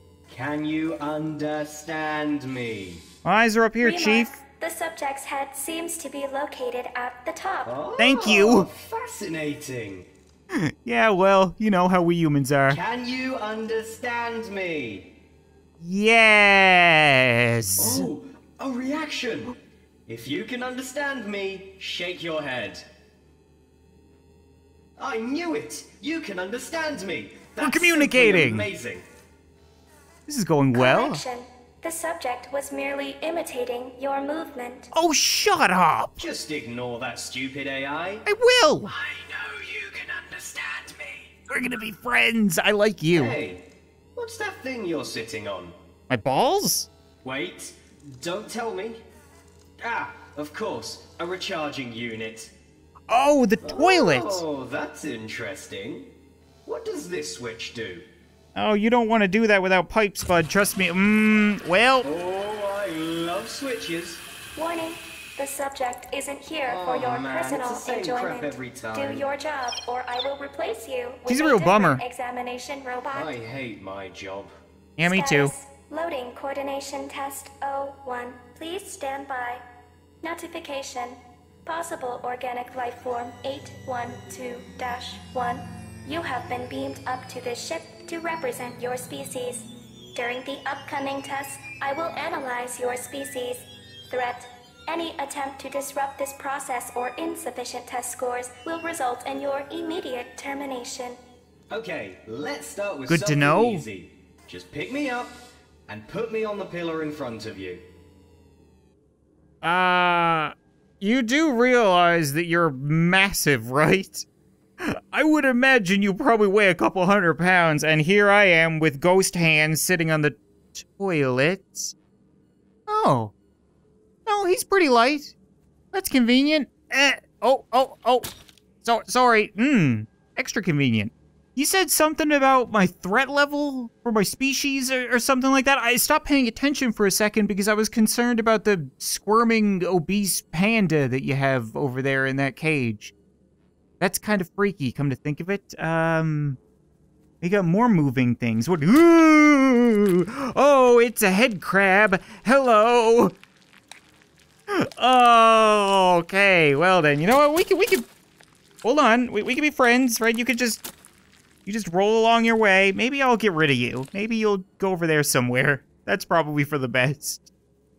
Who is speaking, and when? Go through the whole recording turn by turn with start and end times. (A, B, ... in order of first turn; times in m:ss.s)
0:00.3-0:03.0 A
0:03.2-0:04.4 B
0:03.8-0:07.8 C
0:07.6-0:10.1 A
0:08.0-0:08.7 B
0:10.5-0:12.8 B
0:12.7-0:15.1 A
0:15.8-0:18.1 B
0:17.8-0:19.6 A
0:20.1-0:22.8 A
0:25.0-0:29.0 A
0:27.6-0:28.7 B
0:30.3-0:31.2 B
0:30.7-0:34.9 C
0:34.9-0:36.2 B
0:36.2-0:38.2 A
0:38.3-0:39.0 B
0:38.8-0:41.3 A
0:41.5-0:43.4 B
0:43.1-0:43.6 A
0:44.2-0:45.8 A
0:46.1-0:46.9 B
0:47.2-0:49.0 A
0:49.8-0:52.5 A
0:53.1-0:54.4 B
0:53.6-0:56.1 A
0:56.6-0:58.1 A
0:58.6-1:02.1 B
1:02.0-1:04.2 A
1:04.6-1:13.3 C
1:06.7-1:09.3 A
1:11.3-1:12.0 B
1:13.1-1:14.5 A
1:15.0-1:15.5 B
1:15.0-1:19.6 C
1:20.2-1:41.2 C
1:41.7-1:47.8 A
1:43.1-1:43.9 B
1:49.6-1:54.2 B
1:54.8-2:01.9 B
2:02.9-2:03.3 B
2:04.3-2:05.3 B
2:05.9-2:08.3 B
2:08.8-2:23.1 B
2:24.0-2:26.6 B
2:27.4-2:33.4 B
2:34.7-2:38.1 B
2:38.8-2:40.8 B
2:41.7-2:47.5 B